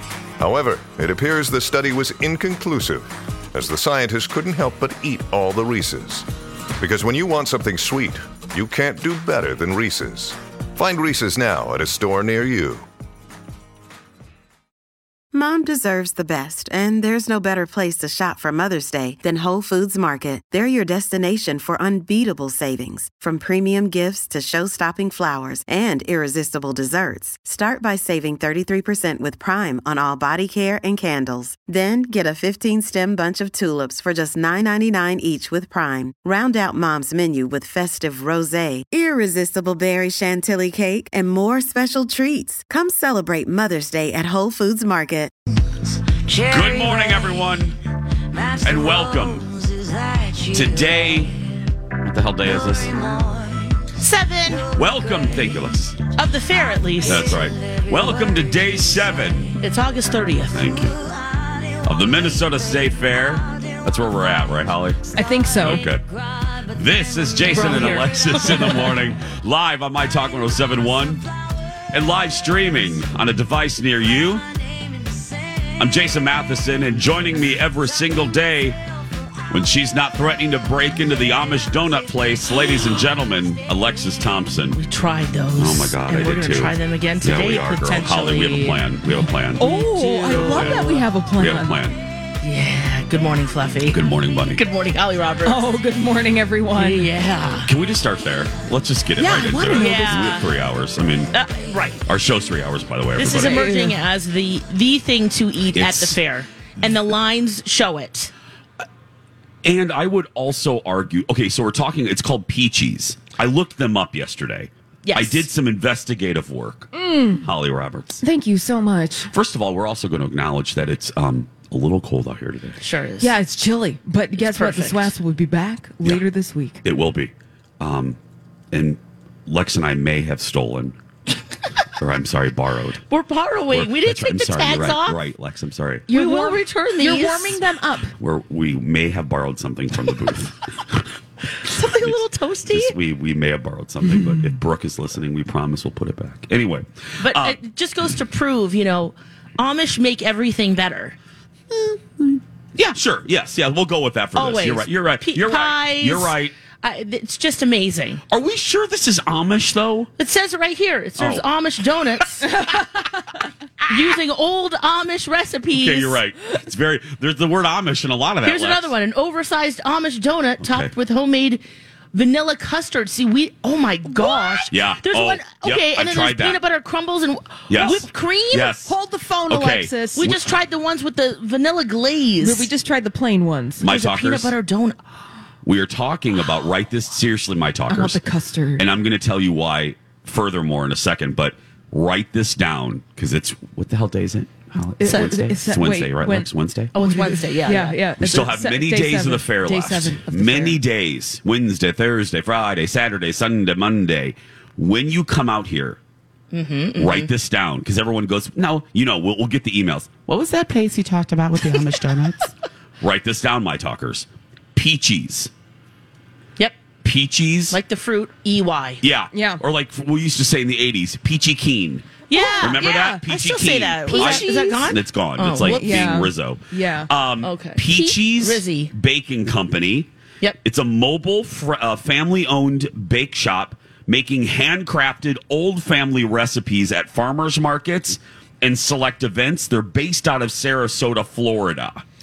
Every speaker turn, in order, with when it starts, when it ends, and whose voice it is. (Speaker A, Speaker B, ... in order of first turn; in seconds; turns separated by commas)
Speaker A: 0.4-6.2, Speaker A: 6.8-12.8, Speaker B: 15.3-45.3, Speaker C: 46.2-47.8, Speaker C: 48.3-53.4, Speaker D: 54.0-54.7, Speaker C: 54.7-56.0, Speaker D: 56.1-57.4, Speaker C: 57.0-59.6, Speaker D: 59.6-60.9, Speaker C: 60.5-61.0, Speaker C: 61.6-71.2, Speaker E: 65.1-65.9, Speaker E: 67.5-68.1, Speaker D: 67.6-68.7, Speaker C: 71.9-74.5, Speaker C: 75.8-78.8, Speaker C: 79.5-84.8, Speaker D: 84.8-88.8, Speaker C: 85.6-89.7, Speaker E: 89.6-91.8, Speaker D: 89.6-91.0, Speaker C: 90.3-92.0, Speaker D: 92.4-95.6, Speaker C: 93.9-94.6, Speaker E: 95.5-97.1, Speaker D: 96.7-97.7, Speaker C: 97.6-101.3, Speaker E: 99.2-100.4, Speaker D: 99.4-100.5, Speaker D: 101.3-102.0, Speaker C: 102.1-103.6, Speaker D: 103.2-108.3, Speaker E: 103.4-104.0, Speaker C: 105.7-106.2, Speaker C: 109.6-118.2, Speaker D: 115.0-115.5, Speaker E: 116.9-117.5, Speaker E: 118.2-119.3, Speaker C: 119.3-122.8, Speaker D: 122.8-123.3, Speaker E: 123.2-126.8, Speaker D: 124.3-125.1, Speaker C: 126.8-128.2, Speaker C: 128.7-131.0, Speaker C: 132.0-133.0, Speaker D: 133.1-135.2, Speaker C: 133.7-136.1, Speaker D: 136.1-137.6, Speaker E: 136.1-138.1, Speaker C: 138.2-141.1, Speaker D: 141.5-143.0, Speaker C: 141.8-147.6, Speaker D: 147.2-151.2, Speaker C: 151.7-156.6, Speaker D: 154.4-158.2, Speaker C: 158.3-160.1, Speaker D: 160.2-162.7, Speaker C: 161.2-161.5, Speaker D: 163.9-166.2, Speaker C: 165.7-168.9, Speaker D: 168.4-171.6, Speaker C: 170.6-170.9, Speaker D: 172.1-178.7, Speaker C: 174.7-176.6, Speaker C: 177.7-178.9, Speaker E: 178.8-180.3, Speaker C: 179.5-180.6, Speaker D: 180.2-182.7, Speaker E: 182.4-183.9, Speaker C: 183.8-184.5, Speaker D: 183.8-185.0, Speaker C: 185.6-188.2, Speaker E: 187.9-188.9, Speaker C: 188.8-196.9, Speaker E: 195.0-200.7, Speaker D: 195.1-195.4, Speaker D: 196.9-198.0, Speaker C: 198.2-206.0, Speaker D: 200.3-200.6, Speaker D: 206.5-207.3, Speaker C: 207.0-215.5, Speaker C: 217.0-217.8, Speaker D: 217.7-219.0, Speaker C: 219.0-230.1, Speaker E: 219.3-219.6, Speaker D: 222.3-226.1, Speaker E: 222.3-223.2, Speaker E: 224.1-224.9, Speaker E: 225.6-227.1, Speaker D: 227.4-228.9, Speaker C: 230.6-242.0